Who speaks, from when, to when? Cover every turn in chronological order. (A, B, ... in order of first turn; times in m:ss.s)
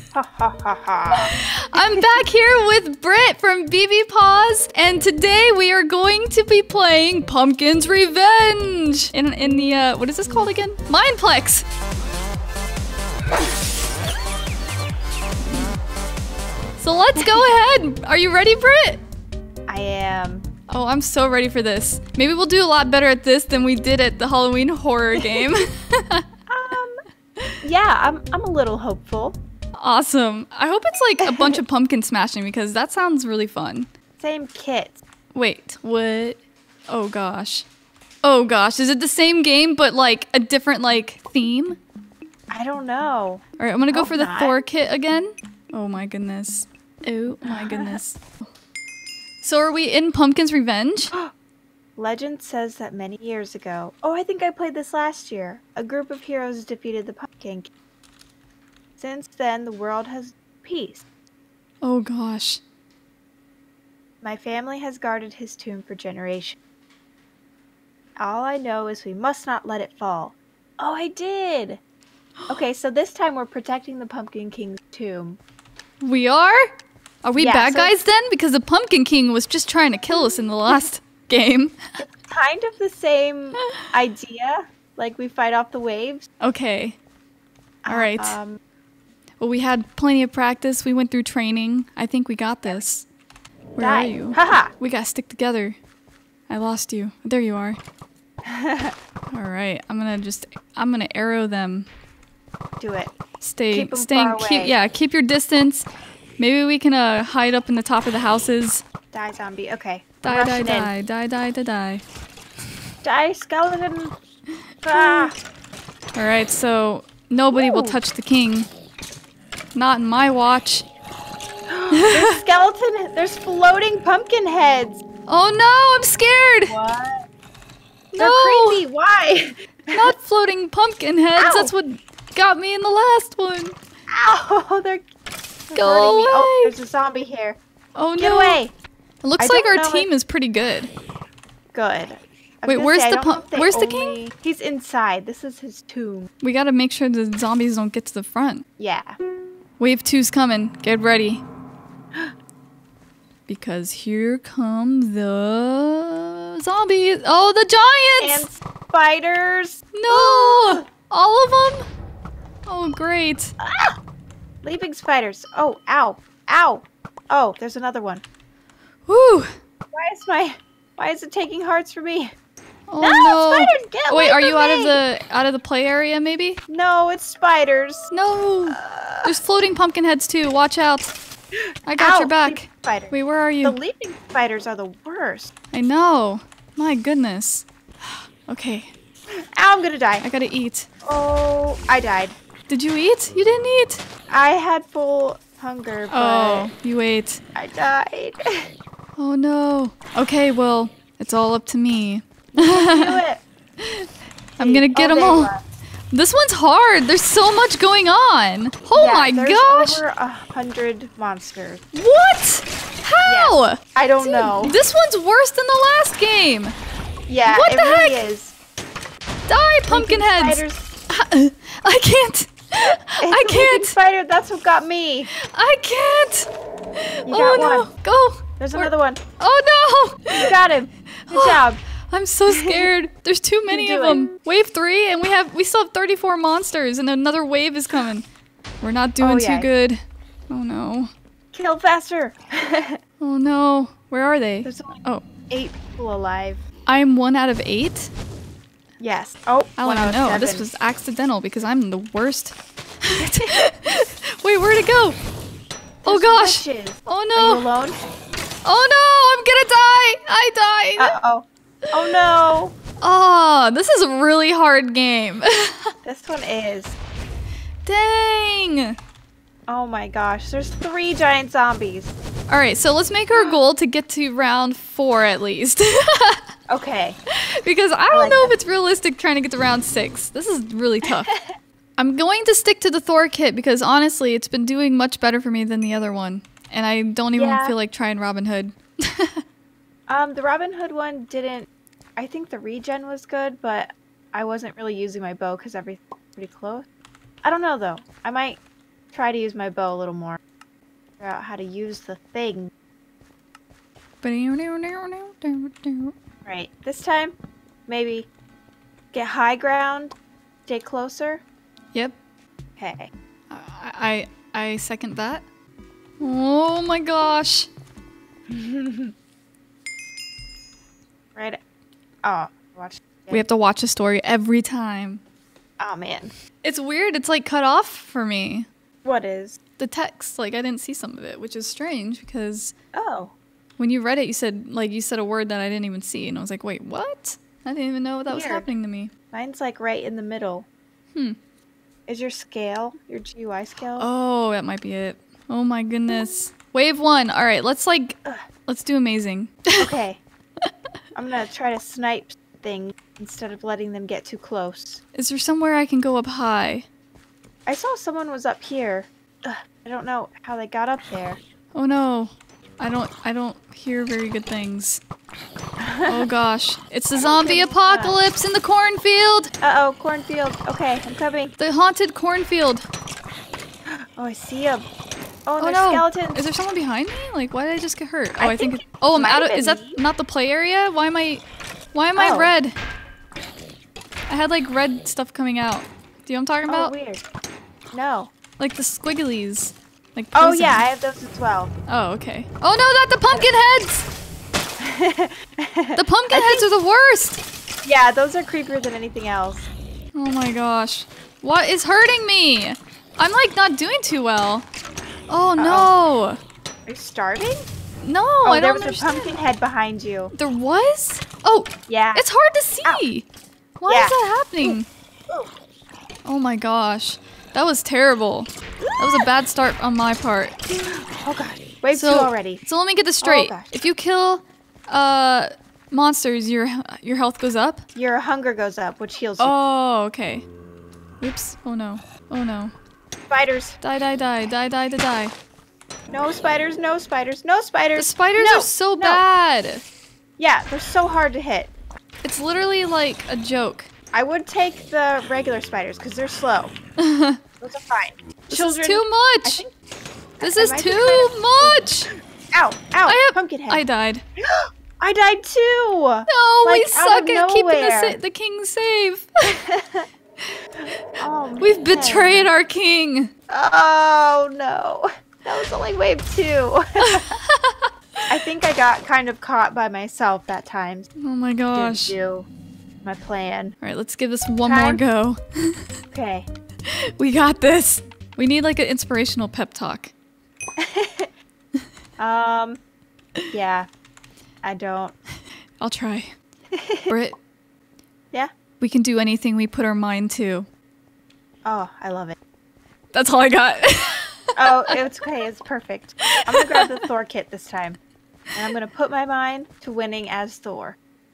0:00.1-0:02.2 A
0:01.1-0:11.6 B
0:16.8-0:19.0 B
0:19.7-0:20.4 A
0:20.7-0:26.2 B
0:25.1-0:25.5 A
0:26.5-0:27.0 A
0:27.6-0:29.4 A
0:29.8-0:33.9 B
0:31.2-0:31.6 A
0:34.2-0:35.0 A
0:35.3-0:37.6 B
0:38.2-0:41.8 B
0:42.5-0:44.6 A
0:43.6-0:48.2 B
0:47.5-0:48.0 A
0:49.4-0:51.1 B
0:52.0-0:57.7 A
0:59.0-1:01.0 A
1:01.8-1:02.6 B
1:04.2-1:06.6 A
1:08.2-1:11.8 A
1:12.5-1:15.4 A
1:16.0-1:16.7 B
1:17.2-1:21.8 B
1:17.4-1:18.0 A
1:20.1-1:20.8 A
1:22.0-1:26.2 A
1:26.4-1:27.0 B
1:27.8-1:28.6 A
1:27.9-1:28.4 B
1:29.4-1:33.1 B
1:33.8-1:35.8 B
1:33.8-1:34.7 A
1:36.5-1:37.8 B
1:38.4-1:38.9 A
1:39.3-1:41.9 B
1:42.8-1:43.1 A
1:43.4-1:45.9 B
1:43.7-1:44.8 A
1:46.4-1:48.8 B
1:49.1-1:50.9 A
1:50.2-1:52.0 B
1:53.0-1:54.1 A
1:54.8-1:55.3 A
1:54.9-1:55.3 B
1:56.1-1:58.7 B
1:57.5-1:58.0 A
1:59.8-2:00.9 B
2:01.7-2:05.0 A
2:01.9-2:02.4 B
2:05.3-2:06.7 B
2:06.7-2:07.2 A
2:08.1-2:10.1 A
2:08.2-2:08.8 B
2:09.9-2:13.8 B
2:11.4-2:11.7 A
2:14.1-2:15.1 A
2:15.7-2:17.6 A
2:15.8-2:16.7 B
2:18.0-2:18.6 B
2:18.2-2:18.7 A
2:19.2-2:20.9 B
2:19.4-2:20.1 A
2:21.7-2:26.3 A
2:22.7-2:24.2 B
2:26.4-2:28.6 B
2:28.8-2:29.2 A
2:29.8-2:31.4 B
2:33.5-2:38.5 B
2:38.2-2:40.8 A
2:39.9-2:41.8 B
2:42.7-2:43.5 B
2:43.6-2:44.0 A
2:44.6-2:48.2 A
2:49.1-2:49.5 B
2:49.9-2:52.3 A
2:52.9-2:56.6 B
2:53.0-2:55.0 A
2:56.7-2:58.1 A
2:58.1-3:01.1 B
2:58.7-2:59.3 A
3:01.5-3:05.5 A
3:01.9-3:03.8 B
3:05.7-3:08.9 B
3:09.4-3:10.2 A
3:10.2-3:10.9 B
3:11.0-3:12.4 A
3:12.7-3:14.0 B
3:14.3-3:16.7 A
3:16.1-3:17.4 B
3:17.5-3:18.7 A
3:19.2-3:23.2 B
3:22.5-3:23.4 A
3:23.8-3:24.1 B
3:24.6-3:25.6 A
3:24.6-3:25.5 B
3:26.1-3:30.0 B
3:28.9-3:31.8 A
3:31.9-3:36.8 B
3:33.2-3:34.8 A
3:37.3-3:38.5 A
3:37.5-3:38.2 B
3:39.5-3:43.9 B
3:39.9-3:40.9 A
3:43.2-3:45.3 A
3:45.4-3:50.5 B
3:47.3-3:47.9 A
3:48.6-3:49.2 A
3:50.3-3:51.8 A
3:51.2-3:58.2 B
3:52.5-3:52.9 A
3:53.7-3:54.2 A
3:58.8-4:01.1 B
3:59.2-3:59.7 A
4:01.5-4:03.0 A
4:03.2-4:05.2 B
4:04.6-4:06.6 A
4:06.8-4:08.1 B
4:09.0-4:10.7 A
4:09.8-4:15.2 B
4:13.2-4:13.7 A
4:16.0-4:18.0 A
4:16.0-4:17.7 B
4:18.6-4:21.2 B
4:21.0-4:22.8 A
4:23.0-4:25.9 B
4:26.0-4:27.0 A
4:27.8-4:29.0 B
4:29.7-4:32.1 A
4:32.5-4:36.4 B
4:36.7-4:37.2 A
4:37.6-4:41.3 B
4:38.1-4:38.6 A
4:41.2-4:41.5 A
4:42.0-4:49.4 B
4:47.4-4:47.8 A
4:50.1-4:56.9 A
4:57.4-4:58.6 A
4:59.1-5:00.4 A
5:01.2-5:02.7 A
5:04.2-5:06.1 B
5:06.4-5:07.4 A
5:07.9-5:08.3 A
5:09.1-5:10.1 A
5:10.7-5:11.4 A
5:12.8-5:13.1 A
5:13.5-5:15.4 B
5:16.2-5:17.7 B
5:18.5-5:19.1 A
5:22.2-5:23.4 A
5:23.3-5:25.2 B
5:25.8-5:26.3 A
5:26.6-5:28.7 B
5:29.0-5:29.6 A
5:29.8-5:32.7 B
5:32.9-5:33.3 A
5:33.8-5:39.1 B
5:38.3-5:38.7 A
5:39.3-5:40.6 A
5:42.1-5:44.1 A
5:44.0-5:49.8 B
5:49.8-5:50.2 A
5:51.1-5:55.0 A
5:55.1-5:56.9 B
5:57.7-6:01.4 A
6:01.7-6:05.0 B
6:05.8-6:06.3 A
6:06.1-6:09.5 B
6:07.2-6:08.2 A
6:09.6-6:11.5 A
6:11.6-6:12.9 B
6:13.9-6:14.9 A
6:15.5-6:16.4 A
6:15.6-6:22.8 B
6:18.4-6:20.0 A
6:22.2-6:22.5 A
6:24.3-6:26.9 B
6:26.7-6:27.2 A
6:27.9-6:28.3 A
6:28.6-6:30.9 B
6:30.4-6:31.7 A
6:31.9-6:34.1 B
6:34.8-6:36.6 A
6:36.0-6:37.4 B
6:37.8-6:39.7 A
6:40.1-6:44.7 B
6:45.3-6:46.4 B
6:45.6-6:45.9 A
6:46.9-6:47.6 A
6:48.0-6:49.3 B
6:48.4-6:50.3 A
6:50.3-6:53.2 B
6:51.9-6:52.2 A
6:53.8-6:54.9 B
6:53.9-6:55.5 A
6:56.2-7:00.6 B
6:58.9-6:59.2 A
7:01.1-7:02.6 A
7:01.9-7:07.8 B
7:03.2-7:03.7 A
7:07.9-7:09.5 A
7:09.4-7:10.4 B
7:11.2-7:12.7 B
7:13.3-7:13.8 A
7:13.8-7:15.3 B
7:16.1-7:19.2 A
7:17.9-7:19.8 B
7:20.4-7:21.7 A
7:22.2-7:23.9 B
7:24.1-7:26.8 A
7:27.0-7:27.4 B
7:27.6-7:29.7 A
7:28.5-7:29.6 B
7:30.4-7:31.9 A
7:30.4-7:32.1 B
7:32.5-7:33.8 A
7:33.1-7:34.2 B
7:34.4-7:38.2 A
7:36.3-7:39.5 B
7:39.4-7:40.1 A
7:41.2-7:42.5 A
7:41.6-7:43.3 B
7:43.5-7:47.3 A
7:47.0-7:48.3 B
7:48.3-7:51.1 A
7:51.2-7:52.1 B
7:51.7-7:52.5 A
7:53.0-7:53.8 A
7:53.8-7:55.8 B
7:54.6-7:55.0 A
7:56.1-7:56.5 A
7:56.9-8:00.1 B
8:00.8-8:01.3 A
8:02.2-8:02.8 A
8:03.5-8:03.9 A
8:04.6-8:05.2 A
8:05.8-8:06.3 B
8:06.7-8:07.1 A
8:07.1-8:07.4 B
8:08.8-8:10.7 B
8:11.6-8:12.4 A
8:13.1-8:14.9 B
8:14.6-8:18.0 A
8:16.4-8:17.0 B
8:18.6-8:21.0 A